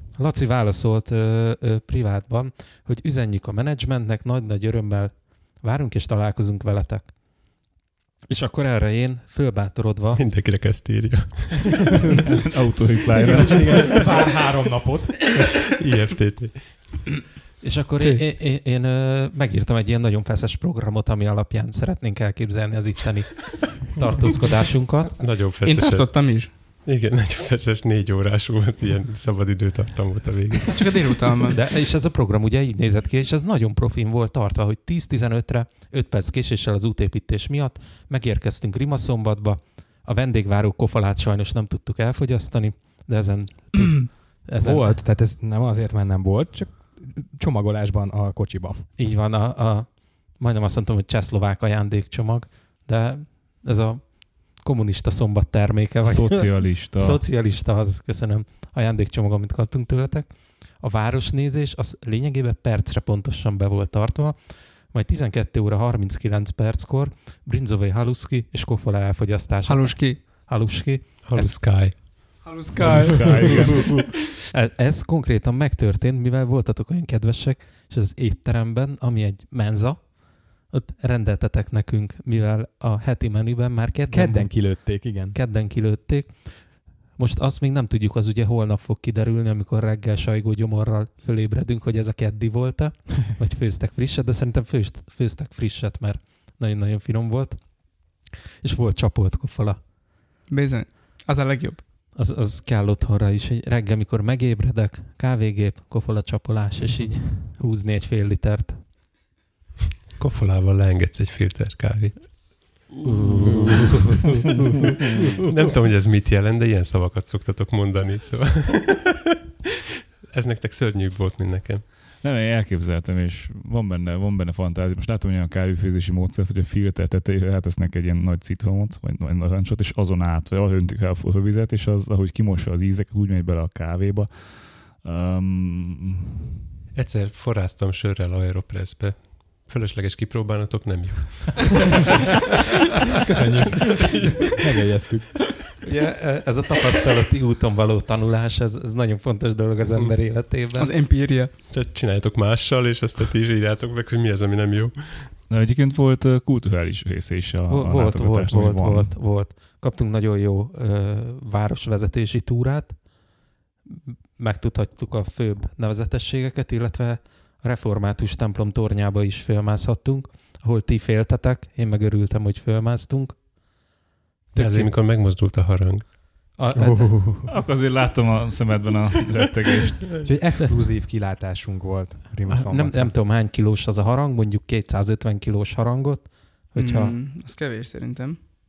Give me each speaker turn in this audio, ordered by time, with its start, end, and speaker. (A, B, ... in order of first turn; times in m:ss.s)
0:00.2-0:07.1 A
0:08.3-0:10.2 A
0:10.1-0:11.9 B
0:12.2-0:14.0 C
0:13.4-0:15.4 D
0:15.4-0:17.0 B
0:17.6-0:25.2 A
0:25.1-0:31.0 B
0:25.6-0:26.5 E
0:30.6-0:31.6 E
0:31.5-0:45.0 A
0:43.8-0:44.1 E
0:44.6-0:48.9 D
0:49.0-1:11.6 A
0:56.0-0:57.2 C
1:09.6-1:10.2 E
1:11.2-1:12.5 B
1:12.4-1:13.7 E
1:12.8-1:14.1 C
1:13.1-1:13.7 A
1:13.4-1:13.8 B
1:14.5-1:39.8 A
1:24.1-1:25.4 D
1:40.5-1:41.8 E
1:42.2-1:48.8 A
1:50.2-1:54.0 B
1:53.0-1:54.6 A
1:55.4-1:59.4 B
2:00.3-2:01.8 B
2:02.2-2:16.4 C
2:17.0-2:21.9 B
2:23.2-2:25.4 D
2:24.0-2:24.5 B
2:25.8-2:30.9 A
2:30.8-2:31.5 E
2:31.7-2:35.3 B
2:35.5-2:39.2 C
2:37.7-2:43.0 A
2:43.9-2:53.4 A
2:54.5-2:56.2 B
2:54.5-2:54.9 A
2:56.6-2:57.5 A
2:56.7-2:57.5 D
2:57.5-3:00.2 C
3:00.2-3:03.1 D
3:02.5-3:07.2 A
3:06.8-3:08.4 E